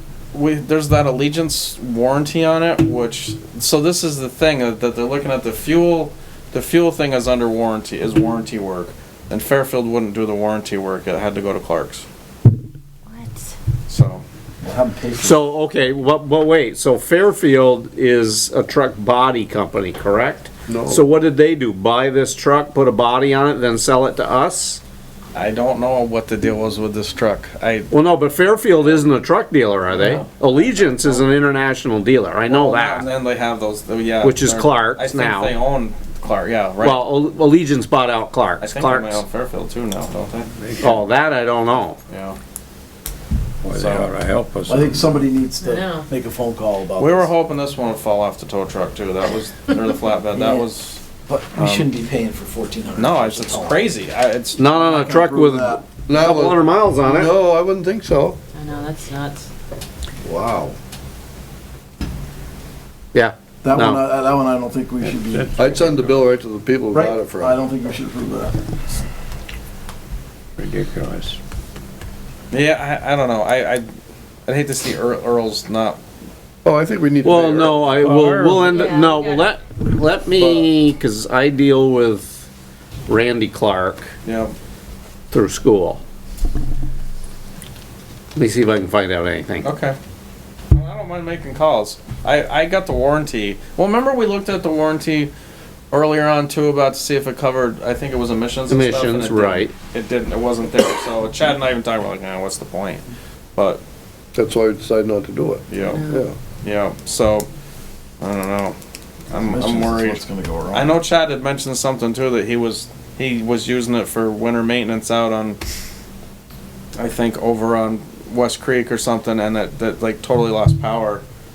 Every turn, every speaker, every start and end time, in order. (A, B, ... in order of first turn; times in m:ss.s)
0:00.3-0:12.0 A
0:13.1-0:13.5 B
0:13.9-0:14.2 A
0:14.6-0:15.4 C
0:15.2-0:24.8 D
0:20.7-0:21.0 E
0:25.3-0:27.9 A
0:27.9-0:33.1 D
0:28.7-0:29.0 A
0:30.2-0:31.3 A
0:32.5-0:37.1 A
0:34.2-0:35.5 D
0:36.8-0:39.2 D
0:38.6-0:40.5 A
0:40.6-0:41.0 F
0:40.8-0:42.0 D
0:42.1-0:42.4 A
0:43.6-0:45.2 F
0:43.7-0:44.1 A
0:44.7-0:47.3 C
0:45.6-0:46.1 B
0:47.0-0:51.0 A
0:50.3-0:50.7 C
0:51.3-0:53.8 C
0:51.6-0:51.9 A
0:53.0-0:55.0 A
0:54.6-0:57.4 D
0:54.8-0:55.8 C
0:56.0-0:58.4 E
0:58.5-0:59.5 B
1:00.2-1:00.8 E
1:03.1-1:04.0 D
1:03.6-1:05.6 C
1:05.0-1:06.3 F
1:05.6-1:07.6 E
1:06.9-1:08.6 C
1:10.6-1:11.4 F
1:12.5-1:13.9 A
1:14.5-1:16.0 A
1:16.6-1:18.0 E
1:17.2-1:22.5 D
1:18.0-1:18.9 F
1:18.7-1:19.6 B
1:23.1-1:24.1 D
1:24.2-1:24.5 A
1:25.3-1:26.0 D
1:28.4-1:29.7 D
1:29.6-1:30.0 A
1:30.7-1:35.3 A
1:35.9-1:43.0 A
1:38.7-1:39.7 D
1:43.6-1:43.8 A
1:44.4-1:46.4 E
1:45.7-1:46.1 A
1:45.9-1:46.2 B
1:46.6-1:47.5 A
1:48.2-1:48.8 A
1:49.3-1:55.6 A
1:49.3-1:51.0 C
1:57.0-2:01.2 A